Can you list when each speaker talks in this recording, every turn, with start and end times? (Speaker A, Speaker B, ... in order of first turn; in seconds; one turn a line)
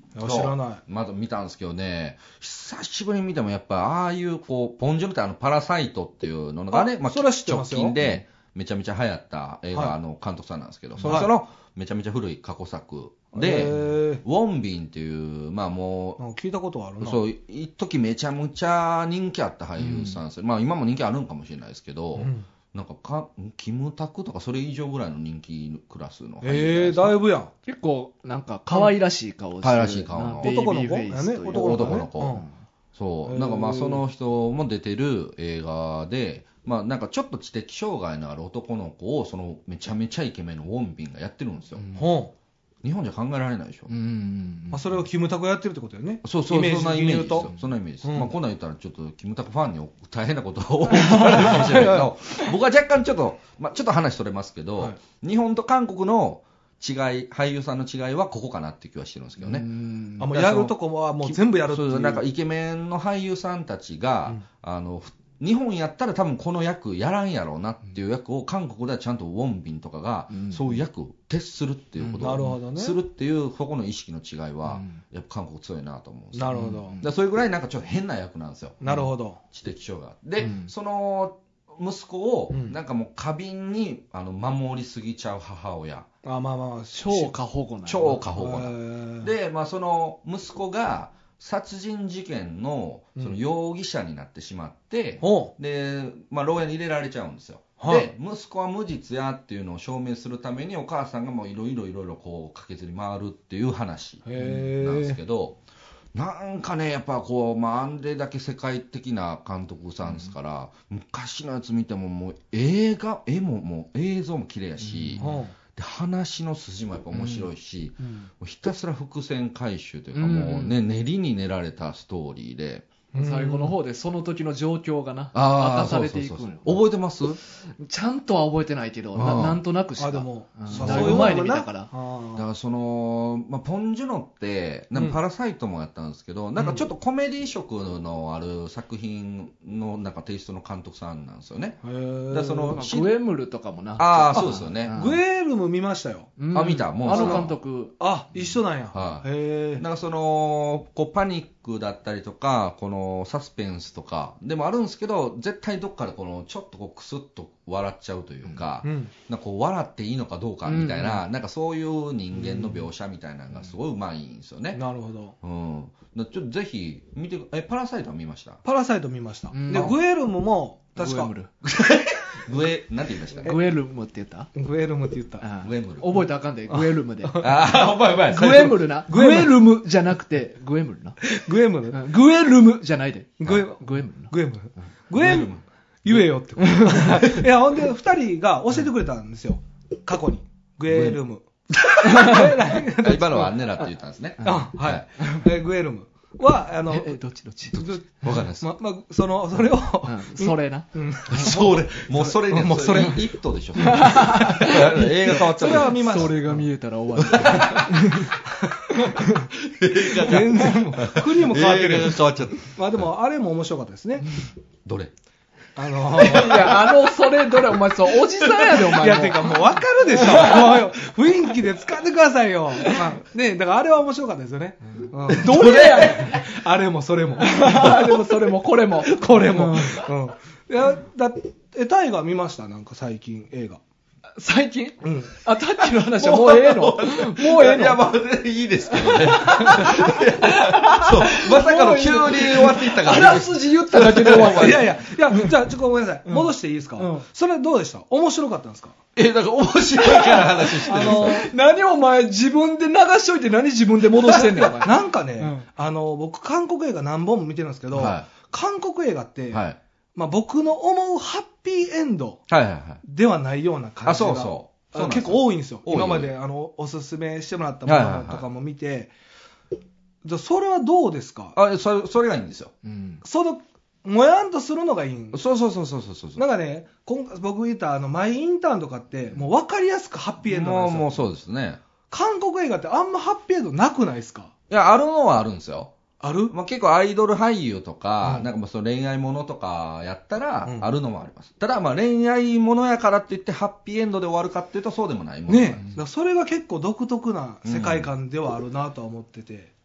Speaker A: 0.1-0.8
Speaker B: 0.2-16.2
Speaker A: 6.7-7.9
Speaker C: 11.0-11.2
Speaker A: 11.0-11.3
Speaker A: 13.3-14.2
Speaker A: 16.2-17.2
Speaker B: 17.0-27.2
Speaker C: 19.8-20.2
Speaker A: 22.2-22.4
Speaker A: 26.4-27.5
Speaker C: 27.6-32.5
Speaker B: 29.6-30.5
Speaker A: 30.4-32.5
Speaker B: 31.5-32.4
Speaker B: 32.9-41.8
Speaker A: 33.2-34.0
Speaker C: 41.8-42.1
Speaker A: 41.9-42.3
Speaker B: 42.8-43.9
Speaker C: 43.9-45.0
Speaker A: 44.7-47.5
Speaker B: 46.2-59.7
Speaker A: 48.0-48.3
Speaker A: 51.0-52.1
Speaker C: 51.0-51.5
Speaker C: 59.4-60.3
Speaker A: 60.2-62.2
Speaker B: 60.2-78.8
Speaker C: 70.3-70.8
Speaker C: 72.0-72.5
Speaker A: 72.2-73.0
Speaker C: 74.7-75.0
Speaker A: 76.3-77.0
Speaker C: 76.5-77.1
Speaker A: 78.8-79.4
Speaker B: 79.5-86.1
Speaker C: 80.4-80.7
Speaker A: 82.5-82.8
Speaker A: 86.2-87.3
Speaker C: 86.9-88.2
Speaker B: 87.8-105.6
Speaker A: 88.3-89.3
Speaker A: 95.2-95.5
Speaker A: 97.8-98.1
Speaker A: 104.2-105.2
Speaker B: 106.1-122.8
Speaker C: 114.8-115.4
Speaker A: 115.2-115.5
Speaker C: 117.1-117.5
Speaker A: 118.0-118.3
Speaker C: 120.1-120.8
Speaker A: 123.1-123.7
Speaker C: 123.2-126.8
Speaker B: 125.3-127.4
Speaker C: 127.8-131.9
Speaker B: 129.1-129.6
Speaker A: 130.0-132.4
Speaker B: 130.7-131.4
Speaker B: 132.3-143.1
Speaker A: 141.8-142.8
Speaker C: 142.7-145.2
Speaker B: 144.0-144.9
Speaker A: 144.3-146.4
Speaker C: 146.4-148.0
Speaker B: 146.5-147.5
Speaker A: 147.1-149.8
Speaker B: 148.9-164.8
Speaker A: 158.8-159.1
Speaker C: 160.7-161.2
Speaker A: 162.4-162.8
Speaker A: 164.7-165.3
Speaker B: 165.4-168.6
Speaker A: 168.6-171.3
Speaker C: 169.5-169.9
Speaker C: 171.0-171.5
Speaker B: 171.6-173.5
Speaker C: 173.4-174.5
Speaker A: 174.5-175.4
Speaker C: 175.4-177.5
Speaker B: 175.6-176.2
Speaker A: 176.7-177.5
Speaker B: 177.4-178.8
Speaker C: 178.3-181.2
Speaker A: 179.1-179.7
Speaker A: 181.2-182.1
Speaker C: 181.9-184.3
Speaker A: 183.4-185.5
Speaker B: 185.1-186.2
Speaker A: 186.0-193.8
Speaker C: 186.6-187.2
Speaker B: 190.9-191.2
Speaker C: 192.0-192.5
Speaker B: 192.2-195.0
Speaker C: 194.4-195.4
Speaker A: 194.4-197.2
Speaker C: 196.9-197.8
Speaker B: 197.7-198.7
Speaker A: 197.7-203.3
Speaker C: 200.0-201.5
Speaker B: 201.3-206.2
Speaker C: 203.8-208.3
Speaker A: 204.4-206.6
Speaker B: 207.2-207.9
Speaker A: 207.4-207.9
Speaker A: 208.5-209.5
Speaker C: 208.9-209.3
Speaker B: 209.6-212.7
Speaker A: 210.1-214.2
Speaker B: 214.8-215.1
Speaker A: 215.8-216.8
Speaker B: 216.2-216.8
Speaker C: 216.2-220.8
Speaker A: 218.8-233.8
Speaker C: 225.3-226.4
Speaker B: 225.6-226.0
Speaker C: 227.4-230.0
Speaker C: 234.4-238.0
Speaker A: 235.0-235.4
Speaker B: 236.2-244.9
Speaker C: 238.9-245.5
Speaker A: 244.4-248.9
Speaker C: 246.3-247.2
Speaker B: 249.2-251.4
Speaker C: 250.0-255.6
Speaker A: 250.8-251.5
Speaker A: 254.1-259.6
Speaker B: 257.9-258.3
Speaker B: 259.5-259.8
Speaker A: 260.1-262.4
Speaker B: 262.5-263.0
Speaker A: 263.0-269.1
Speaker B: 264.0-266.3
Speaker B: 267.8-268.4
Speaker A: 270.2-271.6
Speaker B: 271.5-272.7
Speaker C: 272.8-273.2
Speaker A: 273.2-275.4
Speaker B: 275.3-276.4
Speaker A: 276.4-281.2
Speaker B: 280.4-281.8
Speaker A: 282.1-284.5
Speaker B: 284.7-285.9
Speaker A: 286.2-286.5
Speaker B: 286.5-295.9
Speaker A: 288.2-288.5
Speaker A: 290.6-290.9
Speaker A: 295.5-299.7
Speaker B: 297.6-298.1